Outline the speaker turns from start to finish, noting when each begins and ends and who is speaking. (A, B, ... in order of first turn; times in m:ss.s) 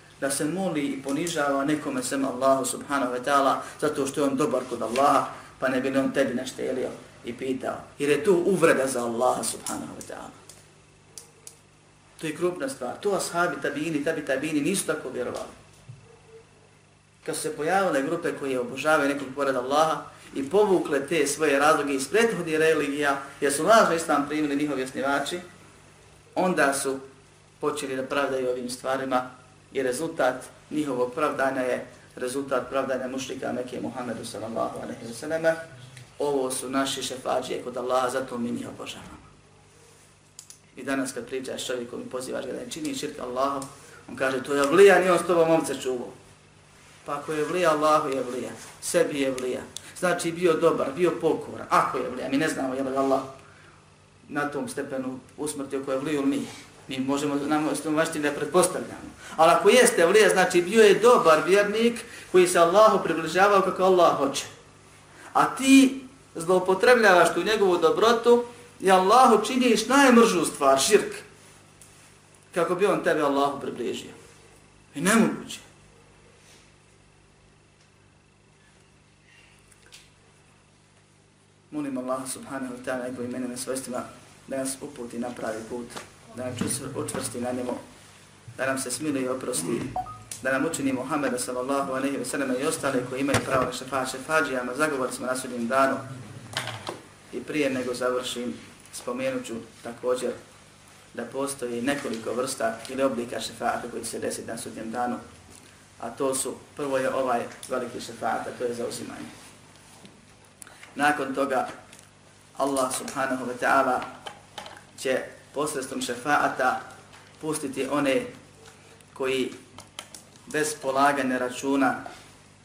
0:00.2-0:10.4 A
0:12.2-0:15.6 A
0:17.2-0:25.4 A
0:26.4-0:27.0 A
0:27.6-0:35.6 A
0:36.2-0:39.3 A
0:40.8-0:46.2 A
0:47.0-0:53.3 A
0:54.3-1:04.5 A
1:05.3-1:11.2 A
1:12.5-1:14.2 A
1:14.9-1:15.6 A
1:21.7-1:27.8 A
1:28.6-1:36.1 A
1:37.3-1:40.4 A
1:41.1-1:45.2 A
1:46.0-1:49.3 A
1:51.0-1:51.7 A
1:52.6-1:54.1 A
1:55.0-1:56.8 A
1:57.4-1:58.3 A
1:59.1-1:59.6 A
2:00.5-2:02.0 A